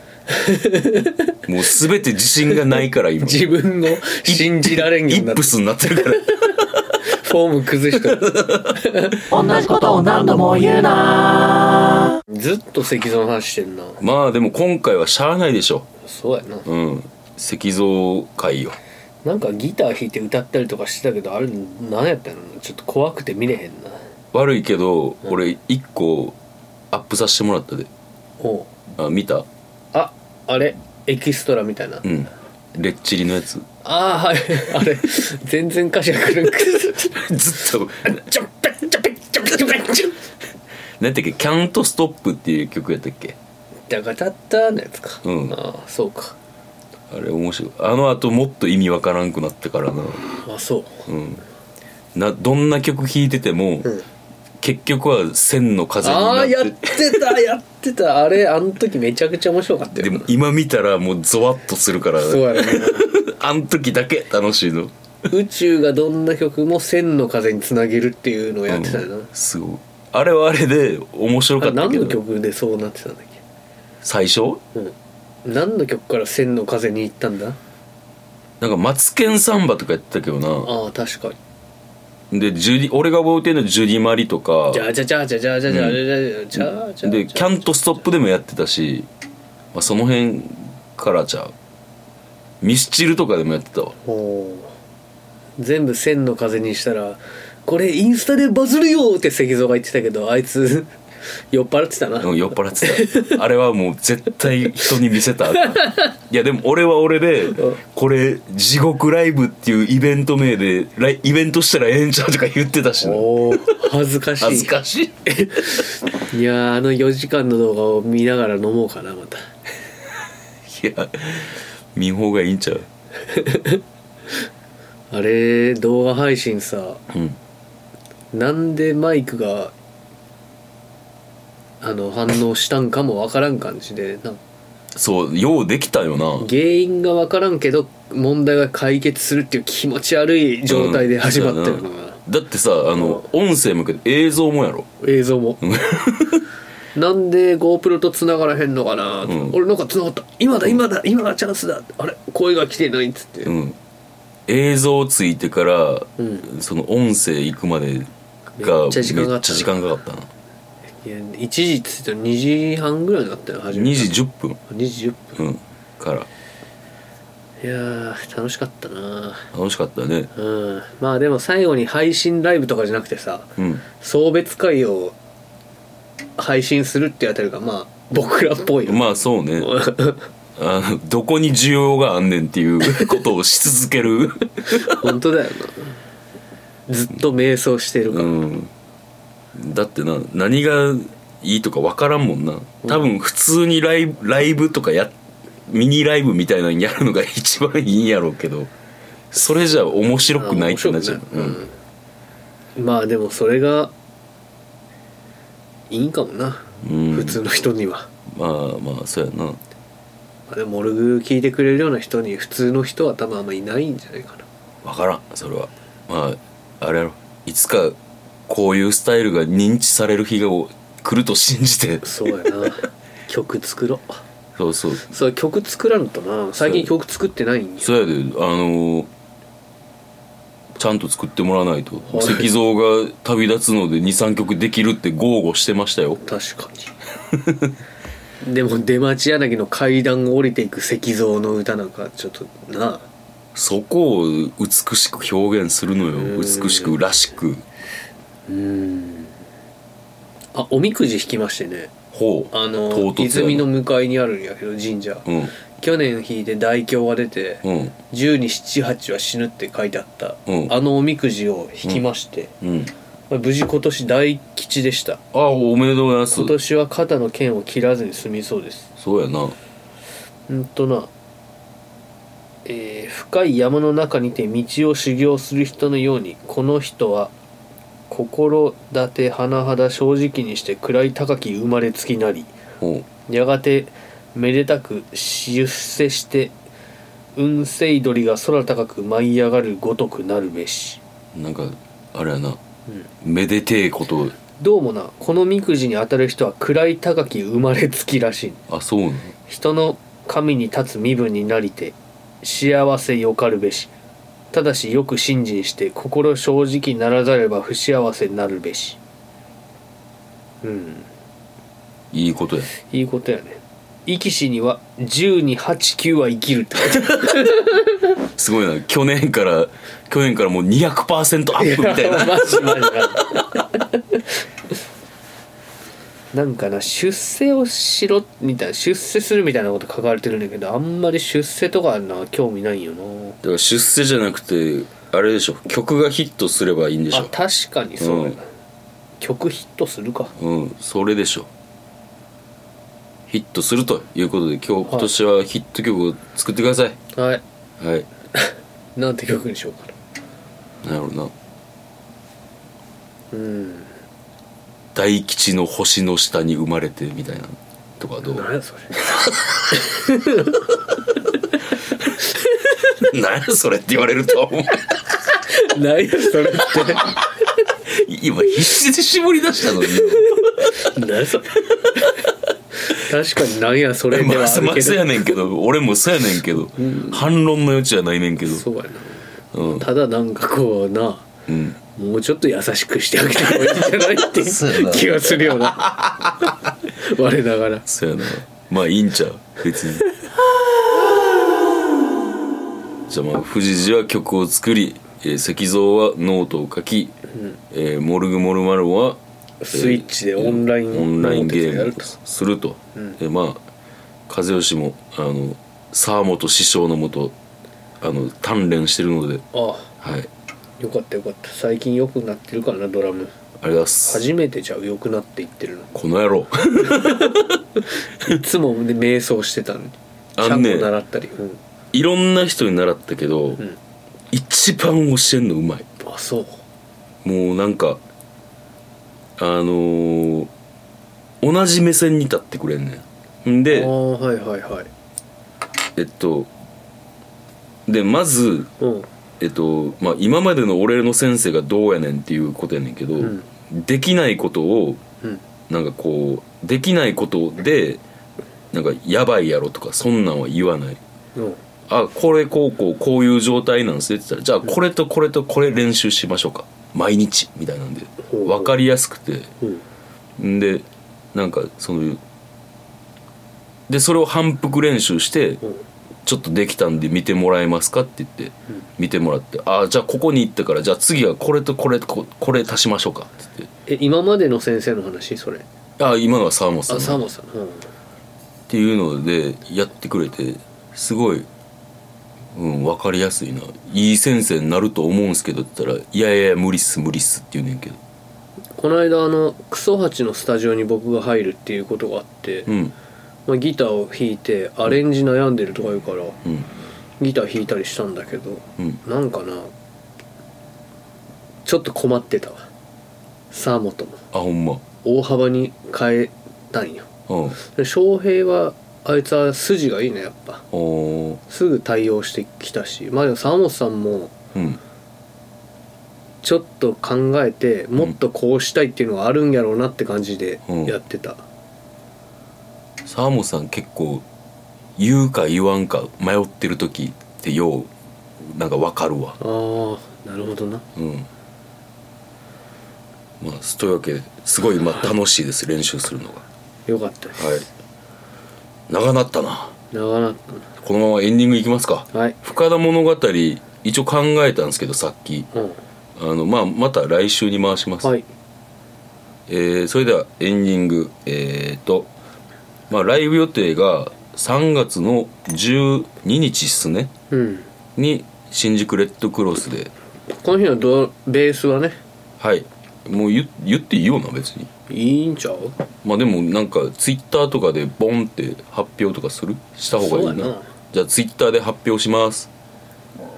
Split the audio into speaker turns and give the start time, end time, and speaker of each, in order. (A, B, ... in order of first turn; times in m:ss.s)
0:00.3-0:01.4 A
0:01.5-0:03.5 B
0:03.2-0:09.2 A
0:04.1-0:06.6 B
0:08.0-0:08.8 B
0:09.3-0:12.2 C
0:12.3-0:14.0 A
0:14.0-0:15.9 B
0:16.0-0:16.7 A
0:16.6-0:18.8 B
0:19.2-0:24.0 A
0:24.3-0:26.4 B
0:26.9-0:27.9 B
0:28.4-0:28.7 A
0:29.0-0:29.5 B
0:29.9-0:32.0 A
0:32.0-0:33.7 B
0:33.8-0:37.4 A
0:37.2-0:38.2 B
0:38.0-0:40.2 A
0:41.0-0:43.4 B
0:43.9-0:46.4 A
0:45.2-0:45.6 B
0:47.1-0:50.2 B
0:50.4-0:51.1 A
0:51.1-0:51.4 B
0:52.2-0:53.9 B
0:54.6-0:57.4 B
0:56.0-1:00.3 A
1:00.0-1:04.9 B
1:02.2-1:03.1 A
1:05.3-1:09.3 A
1:08.7-1:12.2 B
1:11.6-1:13.4 A
1:14.0-1:14.6 B
1:14.8-1:17.6 A
1:18.6-1:20.7 B
1:20.6-1:21.4 A
1:22.3-1:24.9 B
1:24.7-1:27.6 A
1:25.7-1:26.0 B
1:26.5-1:29.1 B
1:29.7-1:31.5 B
1:32.6-1:34.0 B
1:34.0-1:34.7 A
1:35.6-1:40.9 A
1:41.5-1:43.4 A
1:42.2-1:53.7 B
1:45.6-1:46.0 A
1:53.0-1:54.7 A
1:54.4-1:55.2 B
1:55.3-1:59.5 A
2:00.7-2:02.9 B
2:03.3-2:03.8 A
2:05.1-2:07.0 A
2:07.1-2:07.4 B
2:08.3-2:09.7 A
2:11.8-2:14.4 A
2:14.9-2:16.5 B
2:16.4-2:22.2 A
2:20.7-2:24.9 B
2:23.0-2:23.2 A
2:25.0-2:25.6 A
2:25.6-2:26.5 B
2:26.9-2:33.5 A
2:29.3-2:29.6 B
2:33.5-2:33.8 B
2:34.5-2:40.3 B
2:36.2-2:36.5 A
2:38.6-2:39.7 A
2:41.0-2:44.1 A
2:43.7-2:44.6 B
2:44.7-2:45.4 A
2:45.4-2:46.3 B
2:47.6-2:49.5 A
2:49.5-2:50.3 B
2:50.4-2:55.2 A
2:53.6-2:53.8 B
2:56.4-3:00.3 A
2:58.9-2:59.7 B
3:00.6-3:05.1 B
3:04.7-3:06.0 A
3:06.9-3:08.4 A
3:08.1-3:08.7 B
3:09.6-3:18.7 B
3:19.3-3:21.6 B
3:20.3-3:21.7 A
3:22.8-3:23.9 A
3:25.9-3:28.1 A
3:26.8-3:27.4 B
3:28.3-3:29.6 B
3:30.5-3:34.5 A
3:34.8-3:38.0 B
3:38.5-3:42.7 B
3:42.0-3:44.2 A
3:44.6-3:45.1 B
3:45.1-3:47.9 A
3:46.6-3:46.9 B
3:47.8-3:49.1 B
3:50.8-3:56.2 B
3:52.1-3:52.5 A
3:56.2-3:56.9 A
3:57.3-3:57.7 B
3:58.4-4:03.1 A
4:03.6-4:07.6 B
4:06.1-4:07.0 A
4:08.5-4:09.4 A
4:10.5-4:11.9 A
4:12.1-4:13.7 B
4:12.5-4:22.5 A
4:15.3-4:15.5 B
4:17.6-4:17.9 B
4:20.5-4:20.7 B
4:22.6-4:22.9 B
4:23.3-4:25.2 A
4:25.3-4:26.6 B
4:26.3-4:28.9 A
4:29.0-4:29.6 B
4:30.5-4:31.1 A
4:32.6-4:37.3 A
4:38.1-4:42.5 A
4:42.8-4:43.1 B
4:43.3-4:46.5 A
4:47.4-4:51.0 A
4:51.4-4:52.6 B
4:53.2-4:54.4 B
4:54.6-4:58.6 A
4:58.7-4:59.3 B
4:59.5-5:03.9 A
5:04.5-5:09.0 A
5:10.6-5:11.1 A
5:12.1-5:12.7 B
5:12.7-5:18.0 A
5:18.4-5:23.0 B
5:21.6-5:24.2 A
5:26.3-5:33.4 A
5:33.4-5:37.4 B
5:37.1-5:38.4 A
5:38.0-5:38.4 B
5:39.2-5:40.3 A
5:40.4-5:41.5 B
5:43.3-5:47.0 B
5:44.9-5:45.1 A
5:47.2-5:47.4 A
5:47.8-5:48.1 B
5:48.4-5:49.9 A
5:50.8-5:51.3 B
5:53.3-5:53.9 A
5:54.9-5:58.5 B
5:58.3-5:58.9 A
5:59.0-5:59.9 B
5:59.7-6:00.6 A
6:02.1-6:03.0 A
6:03.0-6:05.1 B
6:05.5-6:07.3 A
6:06.7-6:07.0 B
6:07.9-6:10.8 B
6:09.8-6:12.2 A
6:11.7-6:12.0 B
6:12.8-6:15.4 A
6:14.1-6:18.6 B
6:16.7-6:17.2 A
6:18.4-6:21.3 A
6:19.5-6:19.9 B
6:21.5-6:21.8 B
6:22.0-6:26.0 A
6:24.3-6:26.3 B
6:26.8-6:27.9 A
6:27.9-6:30.1 B
6:33.1-6:37.2 B
6:37.7-6:39.2 B
6:39.6-6:42.2 A
6:39.7-6:43.6 B
6:44.3-6:47.4 B
6:48.0-6:49.4 B
6:49.5-6:49.9 A
6:50.0-6:50.3 B
6:50.8-6:53.3 A
6:53.6-6:54.2 B
6:54.1-6:55.9 A
6:55.9-6:57.6 B
6:56.8-6:57.5 A
6:58.2-7:01.6 A
7:00.4-7:00.9 B
7:01.9-7:03.6 B
7:04.3-7:05.9 B
7:06.0-7:06.6 A
7:07.2-7:08.0 B
7:09.4-7:10.5 B
7:11.4-7:13.9 B
7:13.7-7:14.9 A
7:16.0-7:16.5 B
7:17.9-7:18.7 B
7:18.8-7:19.1 A
7:19.4-7:25.0 B
7:23.2-7:23.5 A
7:25.7-7:28.0 B
7:28.7-7:31.0 B
7:31.9-7:39.5 B
7:38.3-7:38.8 A
7:40.4-7:42.2 B
7:43.9-7:45.6 B
7:46.2-7:53.7 B
7:53.9-7:55.6 A
7:56.0-7:57.2 B
7:56.9-7:57.9 A
7:58.7-8:01.5 B
8:02.5-8:08.0 B
8:08.8-8:12.7 A
8:12.7-8:12.9 B
8:13.5-8:16.4 A
8:17.2-8:19.7 A
8:21.6-8:22.7 A
8:23.5-8:24.2 A
8:24.3-8:24.8 B
8:25.0-8:27.1 A
8:27.3-8:27.6 B
8:27.6-8:30.6 A
8:30.7-8:31.4 B
8:31.5-8:34.3 A
8:34.5-8:34.8 B
8:36.4-8:41.4 A
8:40.7-8:41.0 B
8:43.0-8:44.2 B
8:45.0-8:49.4 B
8:49.4-8:50.8 A
8:51.0-8:51.3 B
8:53.4-8:56.4 B
8:56.9-8:57.5 A
8:57.4-8:57.7 B
8:58.9-8:59.7 B
8:59.9-9:00.7 A
9:00.8-9:05.5 B
9:02.1-9:02.4 A
9:05.5-9:05.8 A
9:06.2-9:08.1 B
9:09.5-9:12.1 B
9:12.9-9:17.1 B
9:17.3-9:17.7 A
9:18.0-9:19.9 B
9:20.4-9:22.0 A
9:22.4-9:24.7 B
9:24.9-9:25.8 A
9:26.0-9:32.5 B
9:30.0-9:30.7 A